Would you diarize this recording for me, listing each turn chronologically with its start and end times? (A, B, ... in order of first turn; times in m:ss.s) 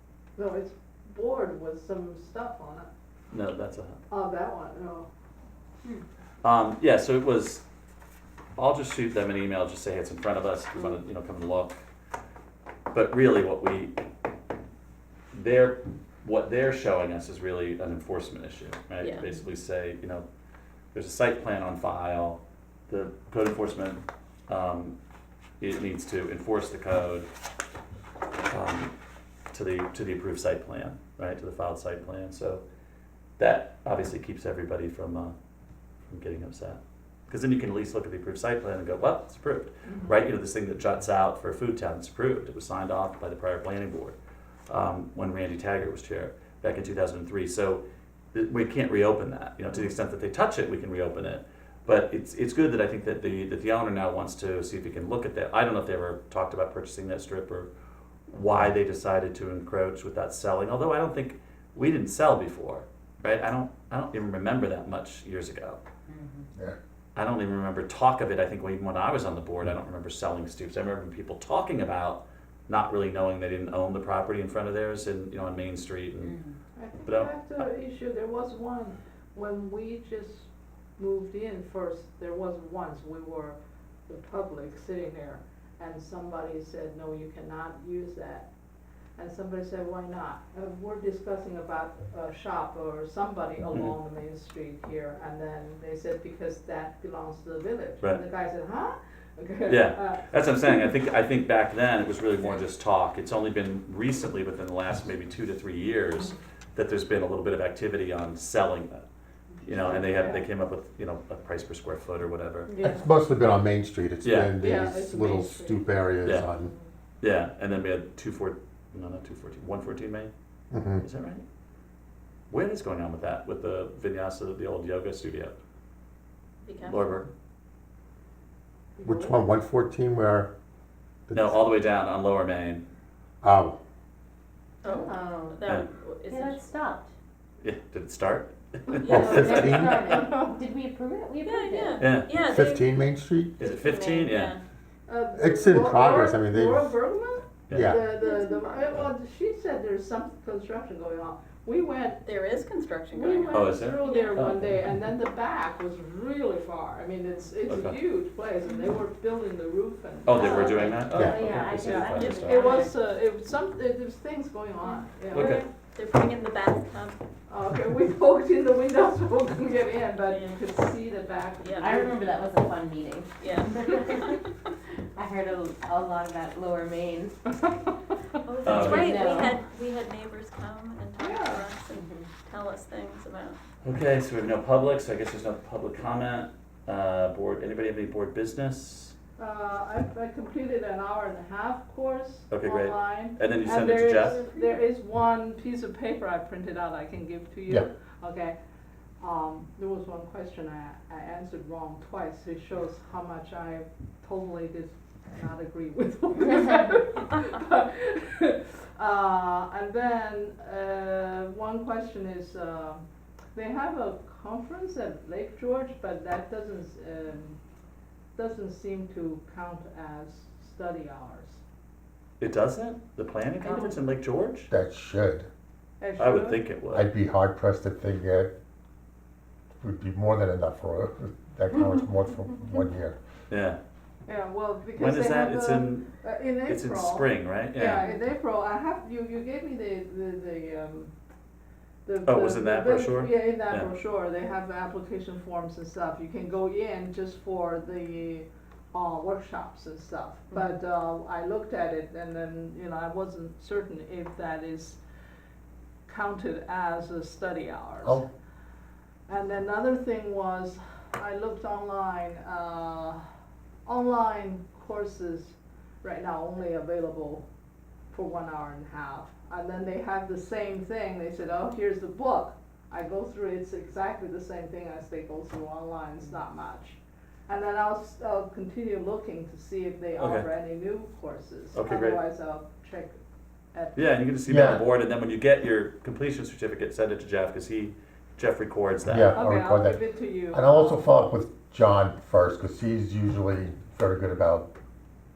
0:00.4-0:02.9 A
0:03.3-0:04.0 B
0:04.1-0:05.1 A
0:06.4-0:07.6 B
0:08.6-0:11.8 B
0:12.9-0:14.0 B
0:15.3-0:20.2 B
0:19.0-0:19.4 C
0:20.9-0:25.0 B
0:25.6-0:27.3 B
0:28.5-0:28.9 B
0:29.5-0:32.6 B
0:33.4-0:35.3 B
0:36.1-0:44.2 B
0:44.7-0:47.8 B
0:48.3-0:57.7 B
0:58.3-1:05.8 B
1:06.1-1:06.4 D
1:07.2-1:16.3 B
1:16.2-1:16.6 D
1:16.8-1:23.6 A
1:17.1-1:17.7 B
1:24.1-1:28.5 A
1:29.2-1:40.3 A
1:39.7-1:49.0 B
1:49.6-1:50.4 D
1:49.6-1:52.7 B
1:49.7-1:50.4 A
1:52.7-1:53.0 D
1:52.8-1:56.7 E
1:54.2-1:54.5 B
1:54.6-1:56.9 A
1:57.2-2:00.3 B
2:00.7-2:01.0 E
2:01.0-2:01.4 B
2:02.5-2:05.5 B
2:06.6-2:07.1 C
2:06.9-2:07.3 B
2:09.0-2:09.3 D
2:09.0-2:10.5 E
2:11.3-2:11.7 E
2:11.3-2:12.8 B
2:13.4-2:13.8 E
2:14.8-2:16.6 C
2:14.8-2:15.6 D
2:16.3-2:17.1 D
2:17.6-2:19.2 B
2:19.0-2:20.0 C
2:19.1-2:22.0 D
2:19.1-2:20.2 E
2:19.2-2:20.5 A
2:21.4-2:22.9 C
2:22.0-2:22.3 B
2:22.4-2:23.5 E
2:23.6-2:24.5 B
2:23.6-2:24.6 C
2:25.1-2:32.3 A
2:25.3-2:26.9 E
2:27.7-2:28.0 B
2:27.7-2:28.1 E
2:28.2-2:28.9 C
2:32.2-2:34.3 C
2:33.1-2:41.1 A
2:33.5-2:34.8 B
2:37.7-2:38.0 B
2:40.2-2:42.5 B
2:40.3-2:43.0 D
2:41.1-2:41.5 E
2:41.9-2:45.6 A
2:42.1-2:42.8 C
2:45.3-2:45.7 B
2:45.3-2:47.2 C
2:47.5-2:52.3 A
2:50.3-2:50.6 C
2:51.6-2:51.9 C
2:51.8-2:54.5 D
2:53.4-2:54.4 C
2:55.2-2:57.4 D
2:58.4-3:03.6 C
2:58.6-2:59.2 B
2:58.7-2:59.6 D
3:01.2-3:01.6 A
3:01.9-3:02.3 D
3:03.8-3:09.1 B
3:09.4-3:18.6 A
3:12.5-3:14.4 B
3:19.2-3:33.0 A
3:33.5-3:37.6 A
3:38.4-3:41.6 A
3:42.4-3:44.7 B
3:43.7-3:43.9 A
3:44.7-3:45.5 E
3:46.0-3:46.6 A
3:46.2-3:47.1 B
3:46.9-3:48.5 E
3:49.8-3:53.2 E
3:53.5-3:53.8 B
3:54.2-4:01.1 A
3:55.0-3:56.1 B
3:56.6-3:58.1 B
4:02.1-4:15.0 A
4:02.2-4:03.9 B
4:16.1-4:18.2 A
4:19.3-4:23.2 A
4:23.9-4:27.4 A
4:28.1-4:43.1 A
4:40.2-4:40.5 B
4:41.7-4:42.2 B
4:43.9-4:49.4 B
4:44.5-4:44.8 E
4:49.0-4:54.7 E
4:49.3-4:51.0 A